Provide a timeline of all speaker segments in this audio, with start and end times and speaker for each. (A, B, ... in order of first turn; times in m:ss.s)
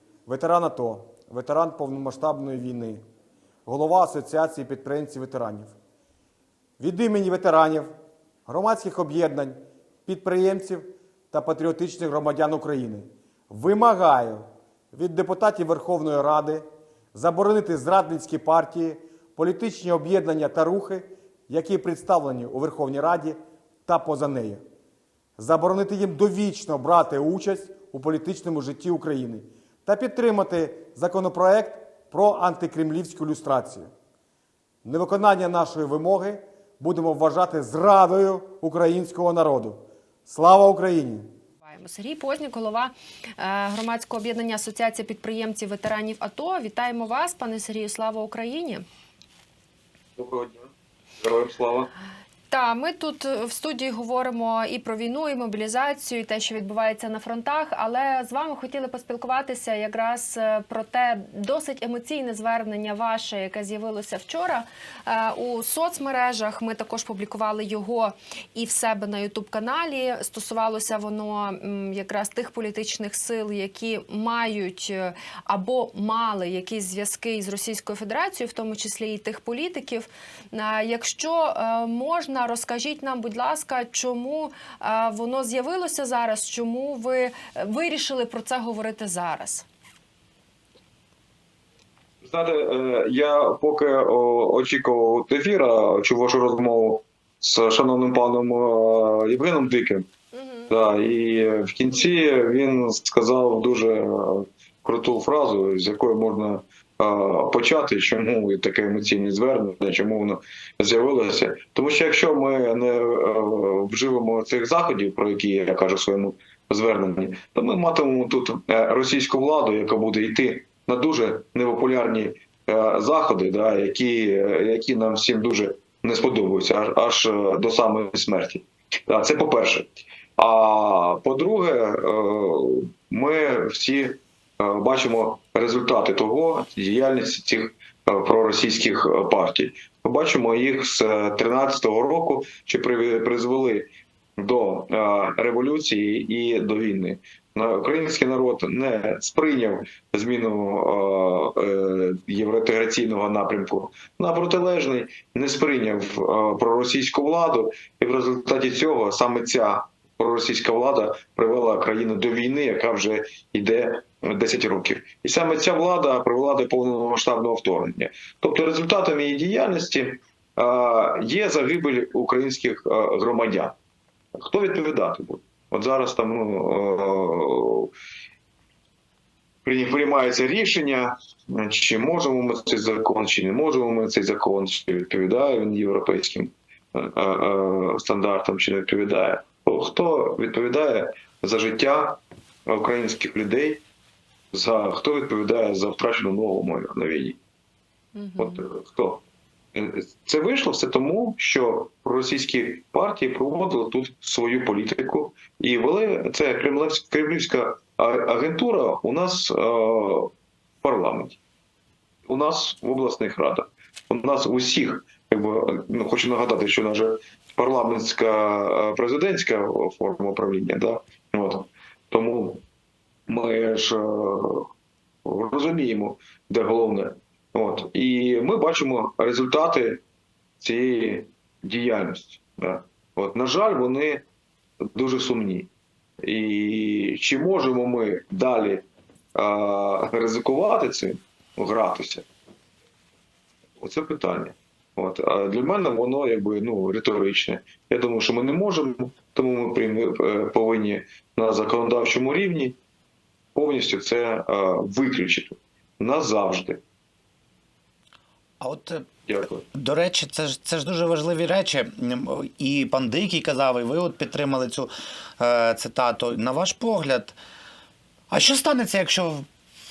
0:00.2-0:03.0 A
0:03.6-0:05.7 A
0:06.8-0:07.9 A
0:08.4-0:24.6 A
0:25.4-0:33.9 A
0:34.8-0:41.2 A
0:41.6-0:48.8 B
0:50.2-0:51.9 C
0:52.5-1:29.6 B
1:32.2-1:40.1 C
1:40.3-1:40.7 B
1:40.7-2:53.8 C
2:54.4-2:57.9 C
2:59.6-3:13.8 C
3:14.5-3:17.4 C
3:18.1-3:18.6 B
3:18.4-3:30.3 C
3:30.8-3:31.4 C
3:32.3-3:42.6 C
3:43.3-3:44.7 C
3:45.2-3:50.0 C
3:50.6-3:54.2 C
3:54.9-3:55.7 C
3:56.2-4:02.2 C
4:03.8-4:12.8 C
4:13.5-4:16.8 C
4:18.6-4:19.0 D
4:19.3-4:19.6 C
4:19.7-4:27.4 D
4:28.3-4:29.4 D